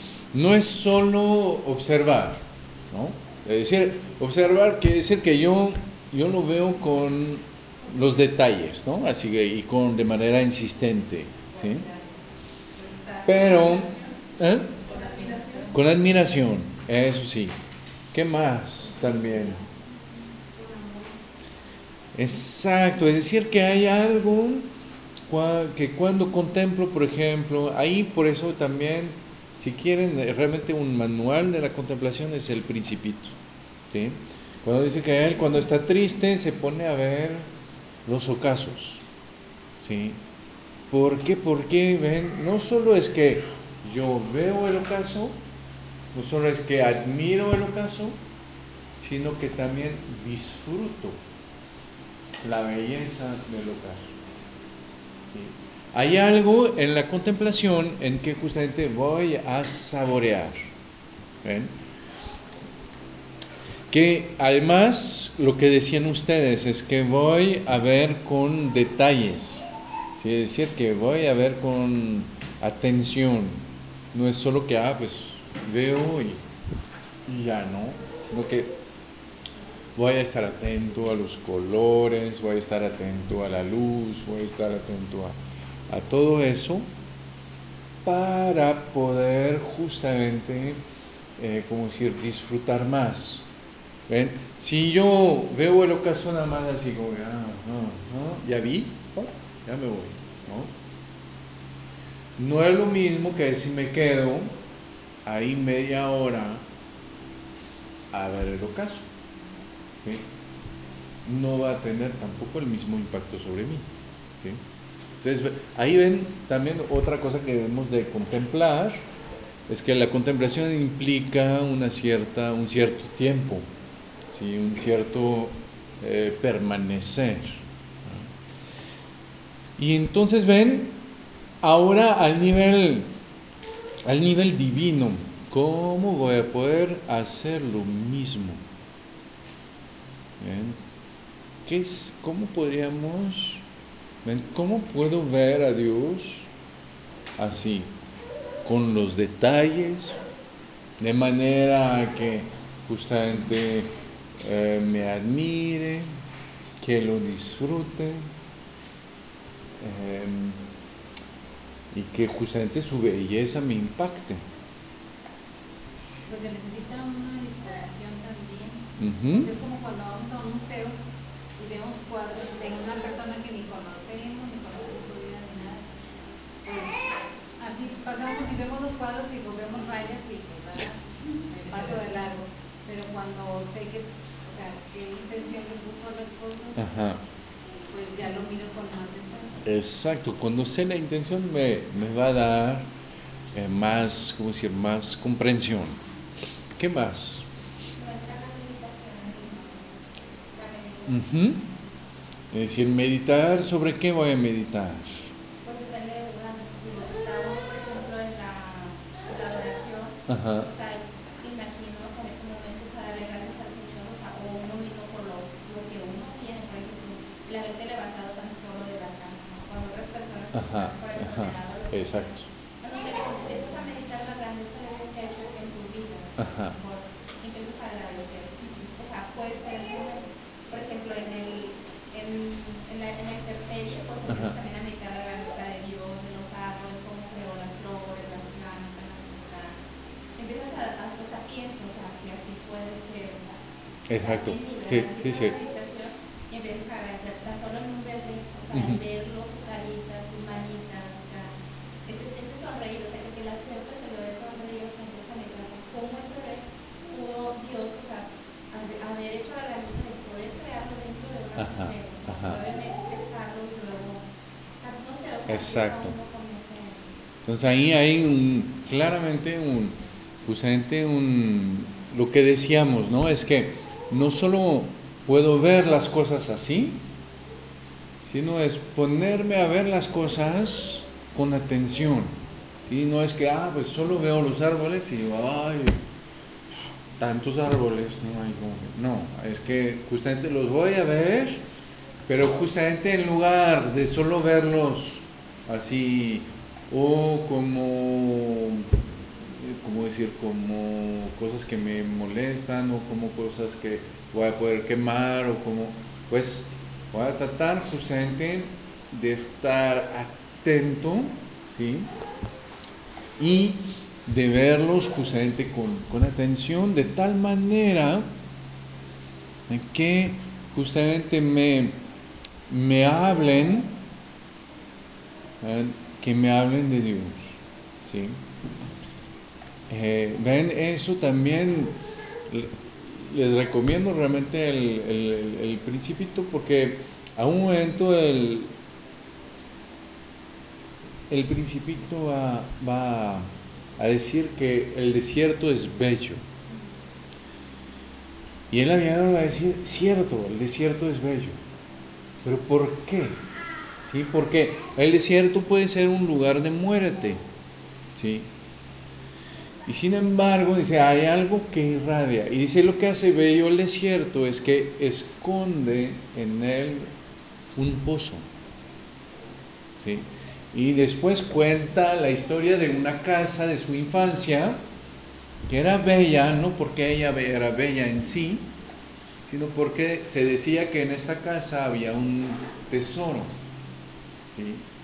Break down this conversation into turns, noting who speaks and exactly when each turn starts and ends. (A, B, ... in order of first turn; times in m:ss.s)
0:00.3-0:02.4 A
0:02.9-0:11.8 A
0:12.8-0:14.1 B
0:13.2-0:14.8 A
0:14.8-0:15.7 B
0:15.0-0:15.6 C
0:15.7-0:17.5 A
0:18.1-0:19.6 A
0:20.5-0:21.1 B
0:22.1-0:24.7 A
0:25.3-0:33.4 A
0:33.9-0:37.4 A
0:38.0-0:39.0 A
0:39.8-0:40.2 A
0:40.9-0:45.4 A
0:46.1-0:48.2 A
0:49.0-0:51.2 A
0:52.4-0:54.1 A
0:55.2-1:00.7 A
1:01.4-1:01.7 A
1:03.9-1:09.6 A
1:10.1-1:13.6 A
1:14.1-1:16.4 A
1:17.3-1:18.7 A
1:20.0-1:25.4 A
1:25.9-1:26.8 A
1:28.0-1:30.8 A
1:31.4-1:33.4 A
1:34.1-1:40.7 A
1:42.4-1:44.5 A
1:45.2-1:46.6 A
1:48.1-1:49.0 A
1:51.2-1:53.8 A
1:55.2-1:59.0 A
1:59.7-2:03.6 A
2:04.3-2:08.2 A
2:09.8-2:11.0 A
2:11.6-2:13.1 A
2:14.0-2:18.6 A
2:20.4-2:20.8 A
2:21.6-2:23.6 A
2:24.2-2:26.5 A
2:27.4-2:27.9 A
2:28.6-2:30.2 A
2:31.0-2:36.1 A
2:36.8-2:38.2 A
2:39.8-2:40.6 A
2:41.9-2:44.4 A
2:46.2-2:50.9 C
2:49.0-2:49.5 A
2:51.6-2:55.8 C
2:56.6-3:06.9 C
3:06.8-3:07.2 A
3:07.8-3:09.6 C
3:09.6-3:12.9 A
3:13.5-3:16.0 A
3:16.8-3:17.4 A
3:18.0-3:19.9 B
3:20.5-3:21.3 B
3:21.1-3:21.7 A
3:22.5-3:25.2 A
3:25.6-3:59.8 B
3:30.3-3:30.7 A
3:40.5-3:42.5 A
3:46.4-3:46.8 A
3:54.2-3:54.6 A
4:00.4-4:03.6 B
4:04.1-4:05.5 A
4:04.1-4:11.5 B
4:08.7-4:09.0 A
4:12.0-4:24.2 B
4:21.6-4:22.6 A
4:24.8-4:27.0 B
4:25.5-4:26.1 A
4:27.4-4:37.0 A
4:38.2-4:42.3 A
4:42.8-4:46.0 A
4:47.2-4:51.6 A
4:52.3-4:58.9 A
4:59.6-5:12.1 A
5:13.4-5:18.2 A
5:19.7-5:22.0 A
5:22.7-5:24.0 A
5:25.6-5:28.4 A
5:29.9-5:32.0 A
5:32.5-5:38.7 A
5:41.3-5:46.4 A
5:48.7-5:51.6 A
5:52.4-5:53.4 A
5:54.0-5:57.4 A
5:58.1-5:58.5 A
5:59.8-6:07.1 A
6:07.8-6:08.4 A
6:10.0-6:14.8 A
6:15.7-6:18.7 A
6:19.4-6:23.5 A
6:24.5-6:24.8 A